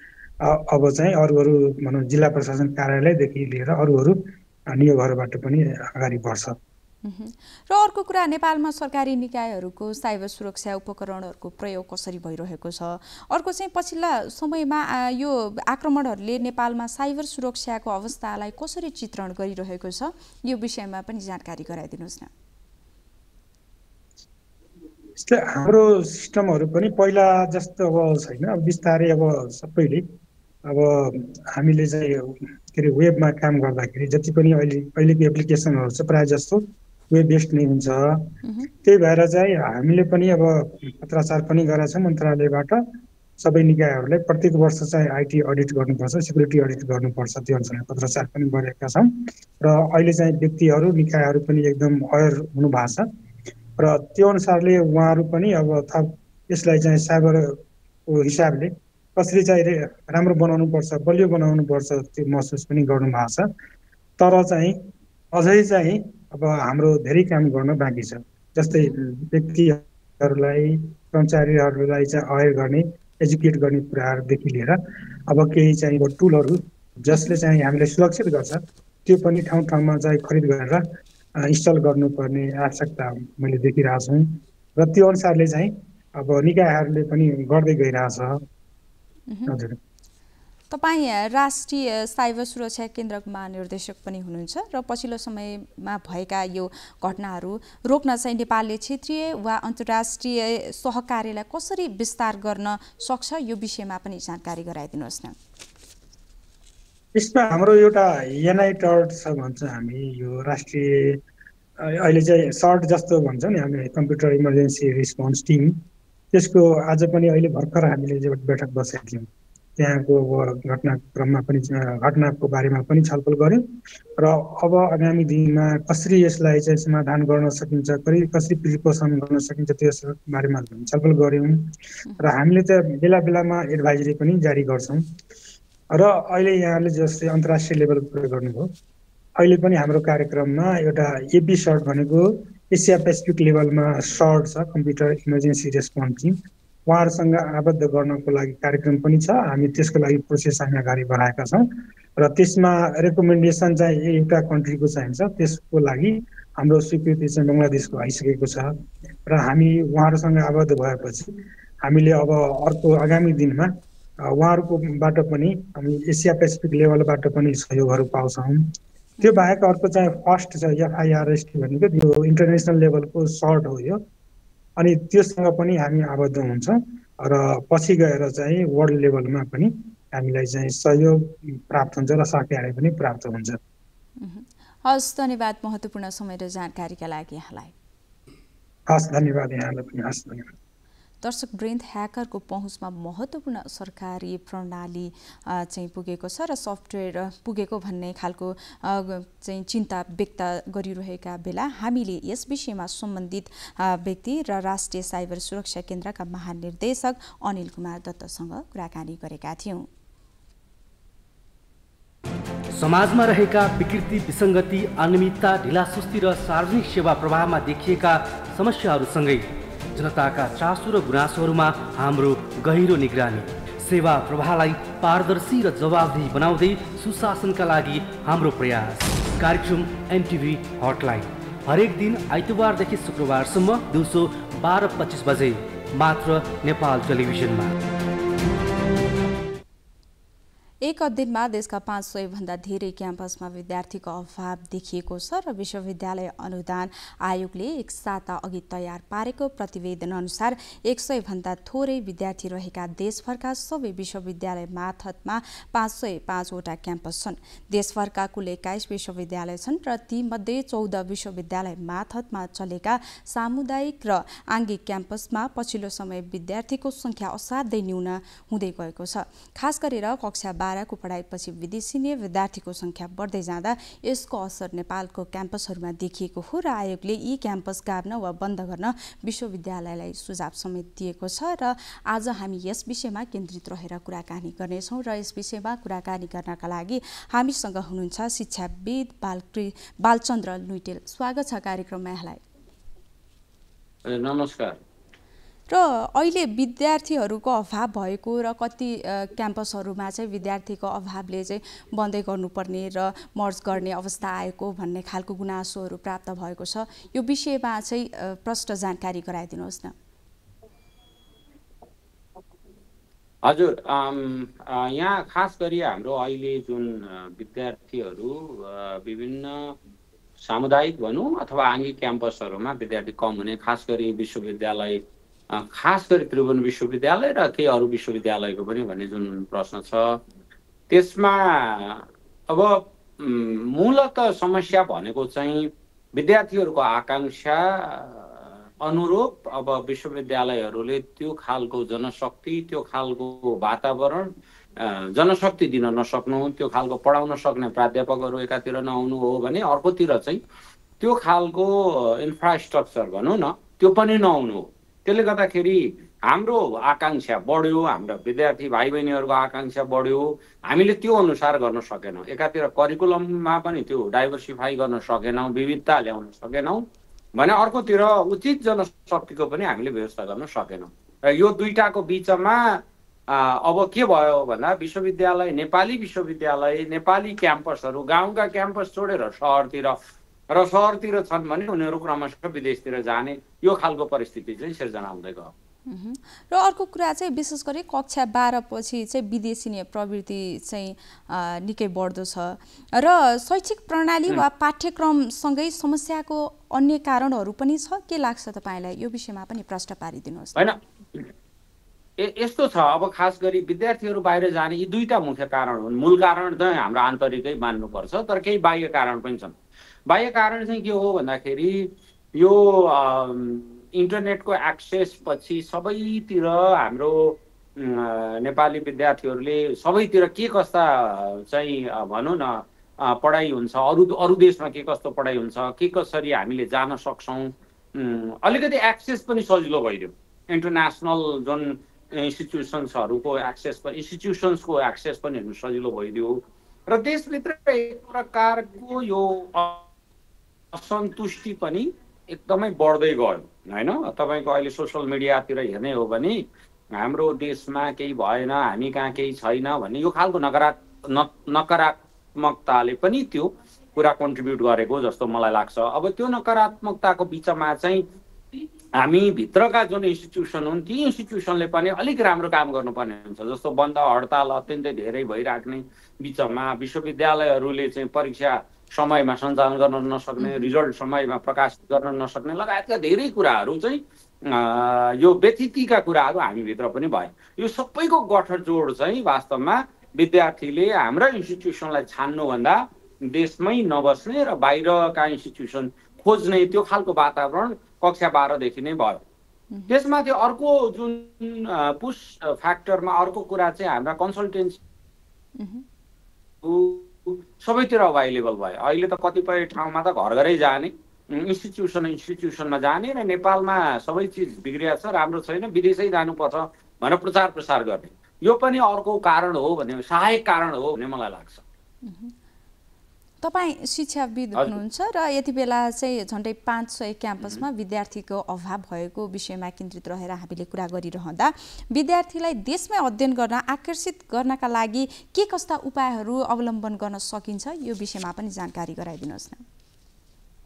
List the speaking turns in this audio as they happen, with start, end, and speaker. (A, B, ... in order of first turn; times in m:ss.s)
0:00.4-0:06.6 A
0:07.0-0:22.3 B
0:25.2-0:30.0 A
0:30.6-0:42.8 A
0:38.4-0:38.7 B
0:43.4-0:53.1 A
0:53.8-1:03.5 A
1:04.2-1:04.8 A
1:05.3-1:20.8 A
1:08.7-1:09.0 B
1:21.4-1:28.4 A
1:29.3-1:29.5 B
1:29.5-1:29.8 A
1:30.7-1:45.4 B
1:47.2-1:51.2 A
1:51.8-1:55.8 A
1:56.3-2:03.6 A
2:04.2-2:15.0 A
2:15.9-2:18.7 A
2:19.4-2:26.4 A
2:26.9-2:31.7 A
2:32.2-2:38.7 A
2:39.3-2:43.7 A
2:44.2-2:48.7 A
2:49.2-2:54.0 A
2:49.2-2:49.5 B
2:54.8-3:03.6 A
3:04.2-3:07.8 B
3:08.9-3:10.5 A
3:11.2-3:29.9 B
3:32.8-3:57.8 C
4:00.8-4:52.4 B
4:54.0-4:54.8 D
4:55.7-5:10.0 B
5:13.4-5:19.8 D
5:20.4-5:30.2 D
5:30.9-5:50.4 D
5:51.0-6:06.8 D
6:07.4-6:20.0 D
6:20.5-6:25.5 D
6:25.9-6:40.7 B
6:40.6-6:41.3 D
6:42.2-6:49.6 D
6:50.1-7:19.9 D
7:20.7-7:26.4 D
7:27.0-8:09.2 D
7:50.4-7:50.7 B
8:09.9-8:14.8 D
8:15.6-8:15.8 B
8:16.6-8:31.6 D
8:32.0-8:32.4 B
8:33.4-8:49.6 B